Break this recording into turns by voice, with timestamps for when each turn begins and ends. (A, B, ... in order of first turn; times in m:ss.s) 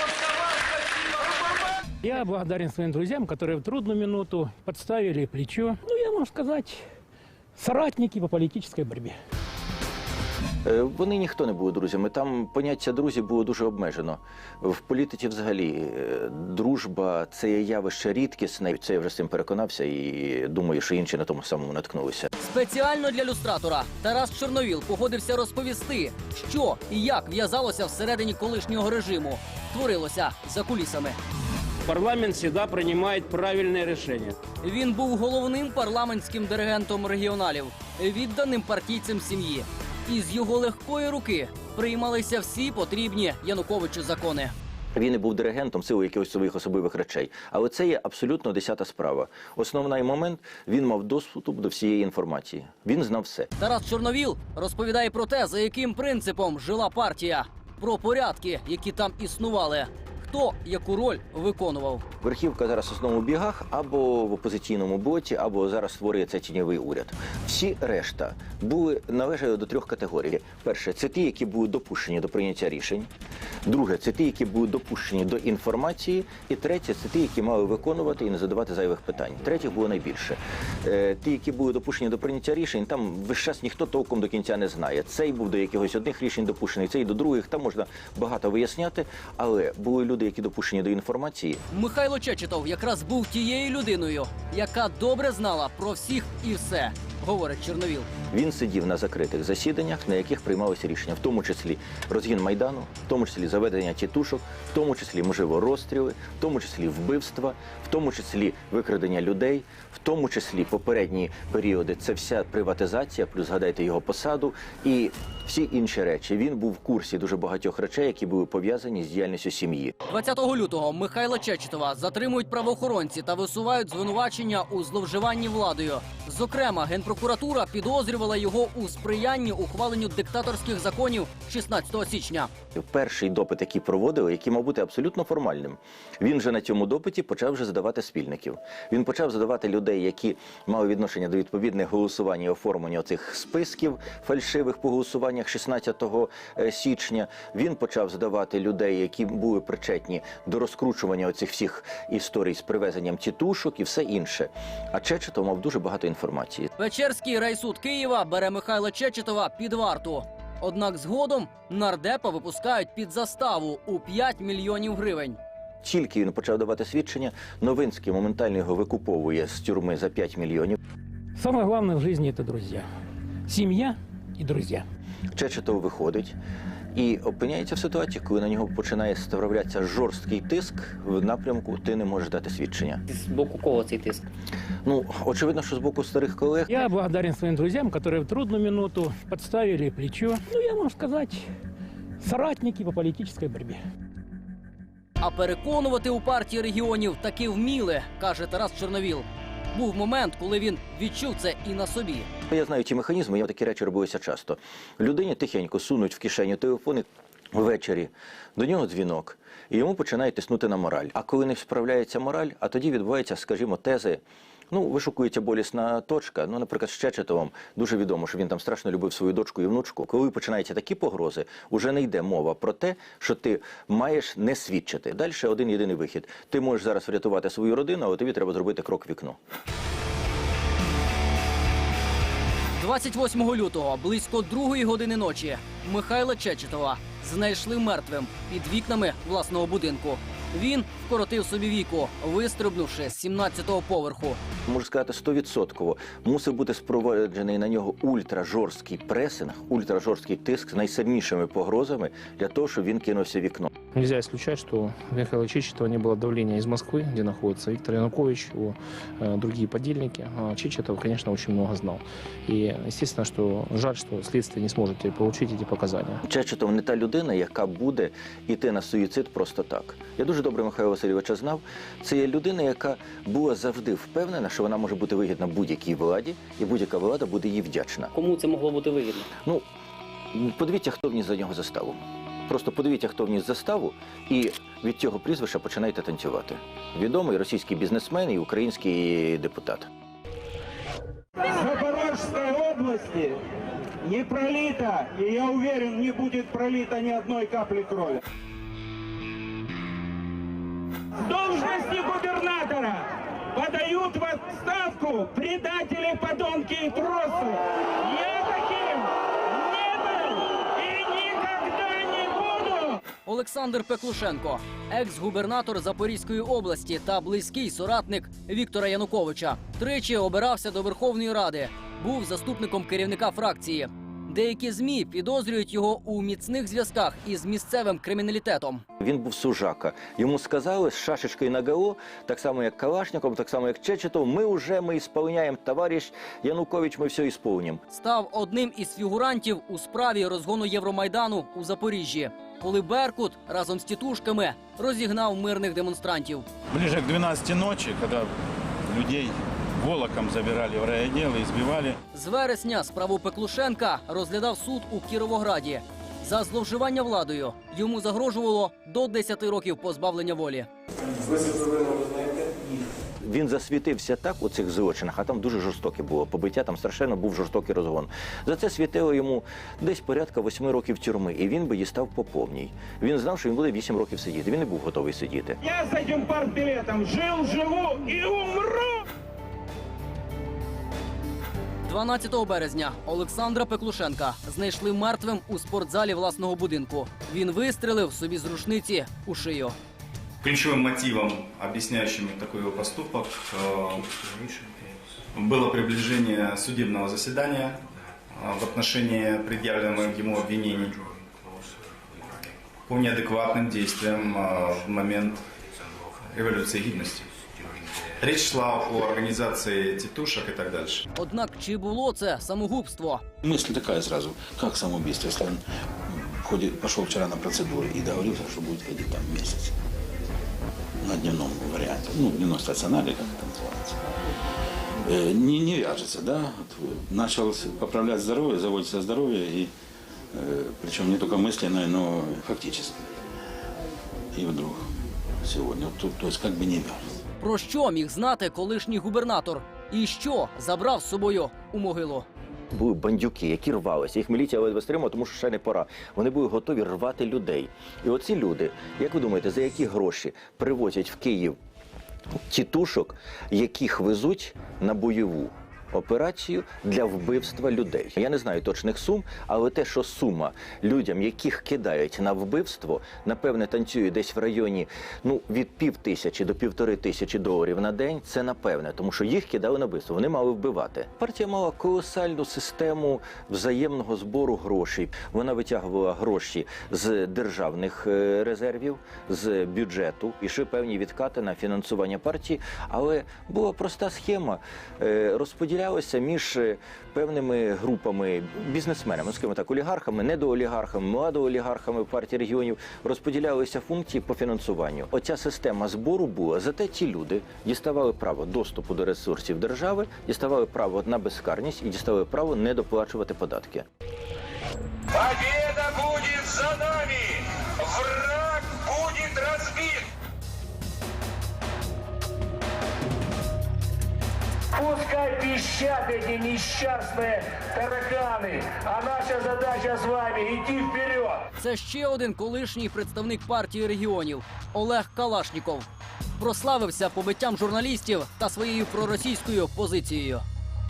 0:02.0-0:06.8 A
0:07.6-0:09.2 A
0:10.6-0:22.3 B
0:22.4-0:31.2 C
0:31.9-0:34.3 D
0:34.6-0:44.5 C
0:44.9-0:53.5 B
0:53.6-1:02.0 C
1:02.2-1:13.1 B
1:13.6-1:31.6 B
1:31.7-1:38.1 C
1:38.3-1:59.9 B
2:00.1-2:12.5 C
2:12.7-2:36.7 B
2:36.8-2:45.4 C
2:45.8-2:50.8 B
2:51.4-2:52.8 A
2:53.5-2:54.8 A
2:55.3-2:56.4 B
2:56.9-3:03.0 B
3:03.1-3:04.2 E
3:04.8-3:06.8 B
3:06.7-3:11.4 A
3:12.2-3:13.8 A
3:15.2-3:22.3 C
3:22.5-3:49.4 B
3:52.8-4:04.4 C
4:04.6-4:13.7 B
4:13.9-4:26.2 F
4:26.2-4:38.1 B
4:38.1-4:39.3 E
4:40.3-4:49.9 B
4:51.5-4:53.4 G
4:54.0-4:58.2 G
5:01.2-5:13.0 G
5:13.2-5:28.8 C
5:29.0-5:37.8 B
5:37.9-5:46.4 C
5:46.7-5:48.3 H
5:48.9-5:52.0 H
5:52.1-6:00.7 C
6:03.2-6:15.6 B
6:15.6-6:19.0 G
6:21.8-6:29.7 C
6:30.4-6:34.1 I
6:35.3-6:37.8 I
6:38.3-6:41.0 I
6:42.9-6:45.4 I
6:46.3-6:47.2 I
6:48.2-6:51.0 I
6:51.1-6:53.2 C
6:53.4-6:59.7 H
7:01.0-7:04.0 H
7:05.0-7:09.7 H
7:10.3-7:13.0 H
7:14.3-7:14.8 H
7:15.4-7:17.0 H
7:17.4-7:22.2 C
7:22.7-7:31.6 B
7:32.5-8:23.8 B
8:25.1-8:30.0 J
8:34.7-8:41.4 J
8:41.6-8:45.9 C
8:46.4-8:50.4 C